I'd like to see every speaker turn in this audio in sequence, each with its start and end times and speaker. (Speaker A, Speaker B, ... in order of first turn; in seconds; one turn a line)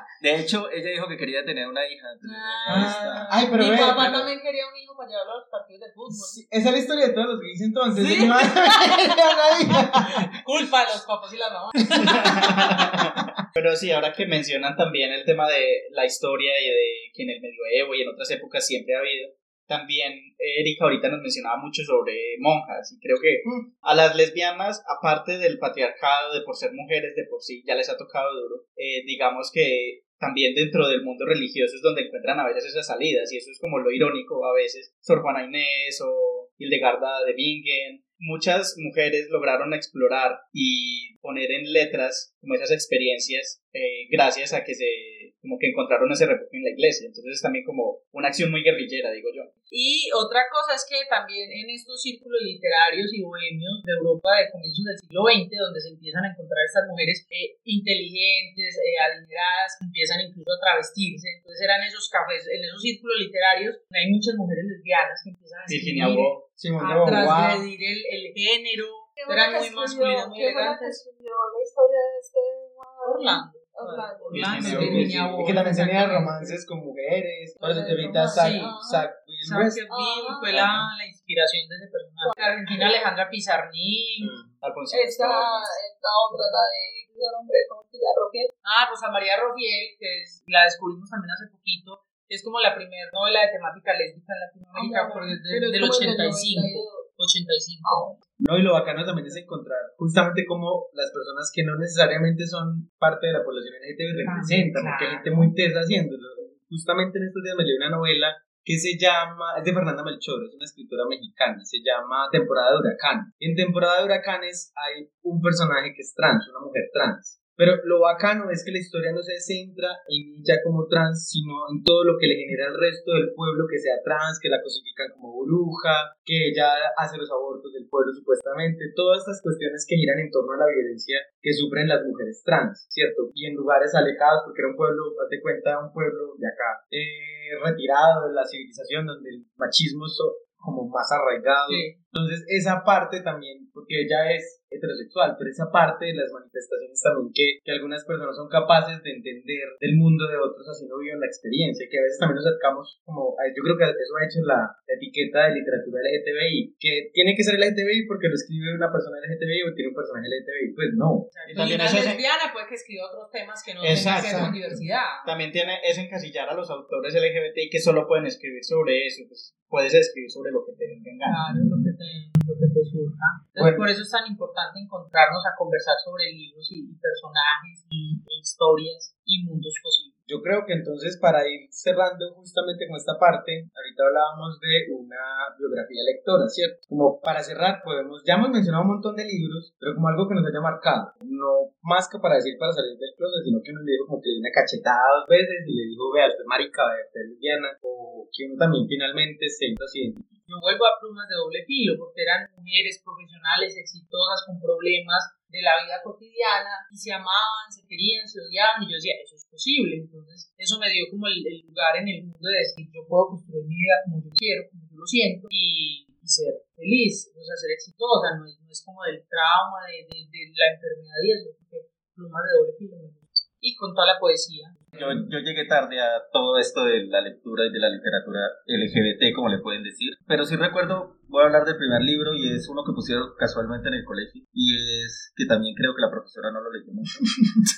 Speaker A: 0.2-4.3
Speaker B: 2.2-6.4
Speaker C: 2.7-4.2
Speaker C: 6.1-10.1
Speaker B: 8.0-9.1
Speaker B: 10.3-12.1
Speaker D: 12.0-49.5
Speaker B: 49.7-71.0
Speaker D: 65.7-66.5
Speaker C: 66.5-67.7
Speaker E: 69.2-75.0
Speaker B: 73.0-76.6
Speaker D: 74.3-75.4
Speaker C: 74.6-79.8
Speaker E: 77.6-79.0
Speaker B: 78.3-78.7
Speaker B: 79.4-84.3
Speaker E: 79.9-80.5
Speaker C: 80.5-80.8
Speaker E: 82.2-83.0
Speaker C: 84.2-84.5
Speaker D: 84.6-85.8
Speaker E: 84.9-88.5
Speaker B: 88.6-98.0
Speaker E: 94.7-97.1
Speaker E: 97.8-98.2
Speaker C: 98.4-161.3
Speaker B: 104.2-105.5
Speaker A: 136.4-136.8
Speaker B: 141.7-142.0
Speaker B: 161.3-165.3
Speaker D: 161.5-162.2
Speaker D: 163.8-164.6
Speaker C: 163.9-164.8
Speaker D: 165.2-171.4
Speaker B: 171.2-180.1
Speaker C: 173.6-173.9
Speaker C: 180.3-200.3
Speaker B: 200.5-225.1
Speaker A: 224.9-237.2